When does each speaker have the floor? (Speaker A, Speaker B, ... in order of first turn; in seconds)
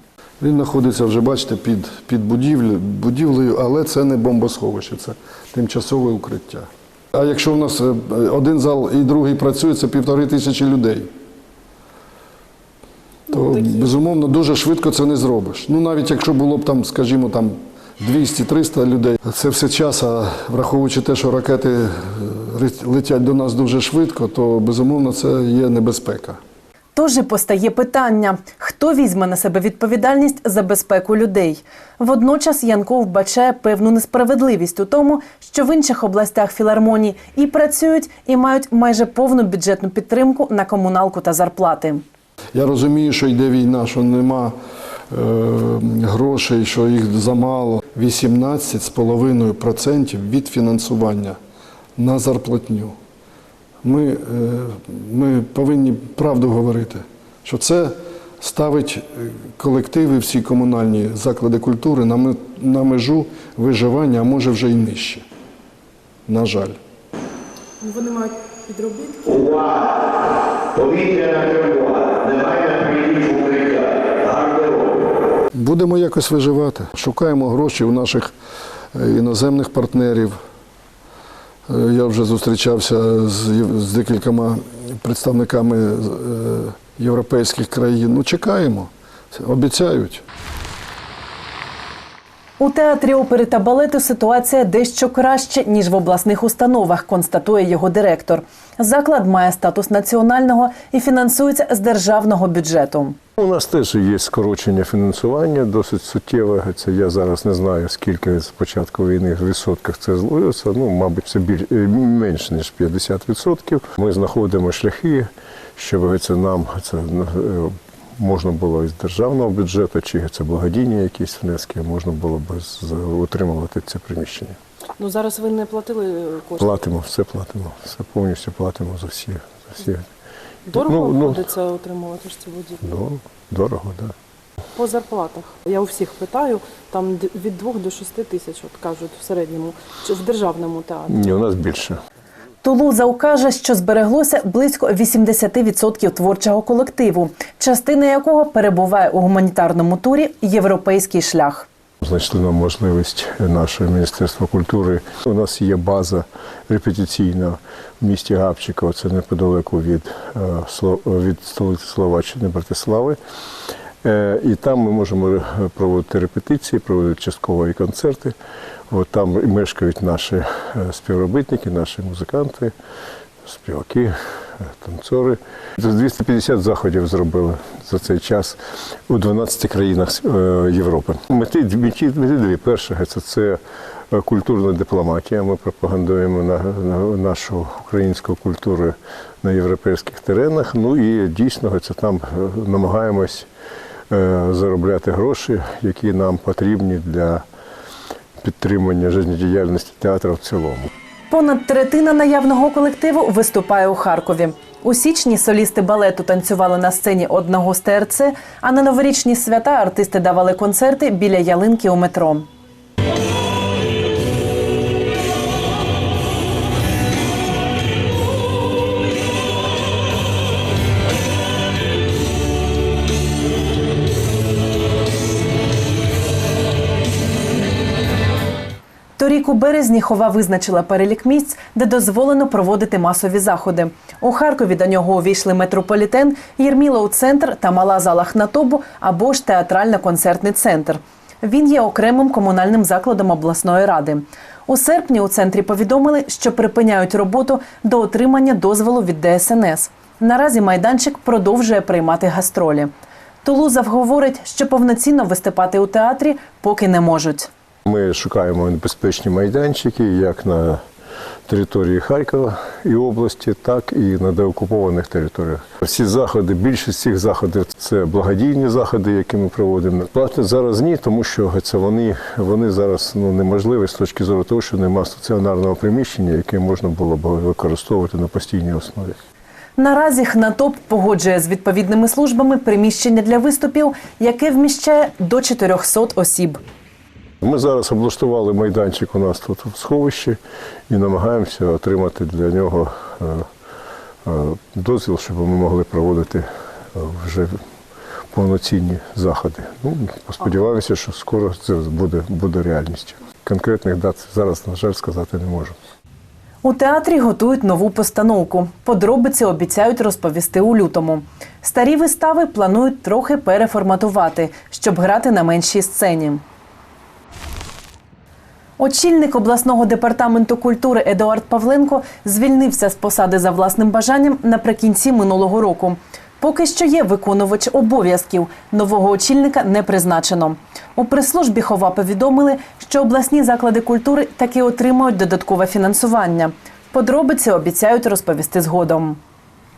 Speaker A: 0.4-11.1, 13.3-26.4, 42.5-44.5, 45.1-51.4, 52.0-53.0, 53.8-65.2, 66.3-66.8, 75.5-78.3, 78.9-80.4, 81.7-90.2
Speaker B: 27.0-42.0, 92.6-103.2, 142.6-151.7, 201.3-212.5, 229.2-252.9, 253.4-257.5, 279.8-286.6, 306.6-316.4, 318.8-339.2
Speaker C: 67.8-69.7, 125.0-126.7, 130.7-132.8, 134.8-141.3
Speaker D: 70.8-74.8
Speaker E: 103.4-124.6, 126.6-130.1, 130.8-131.5, 132.8-134.1, 141.1-142.0, 152.0-163.2, 164.0-168.3, 168.9-172.7, 173.4-178.6, 179.1-183.6, 184.1-193.5, 194.1-197.4, 198.4-200.9, 257.9-260.8, 261.5-279.2, 287.4-290.4, 290.9-293.4, 294.3-297.5, 298.3-305.8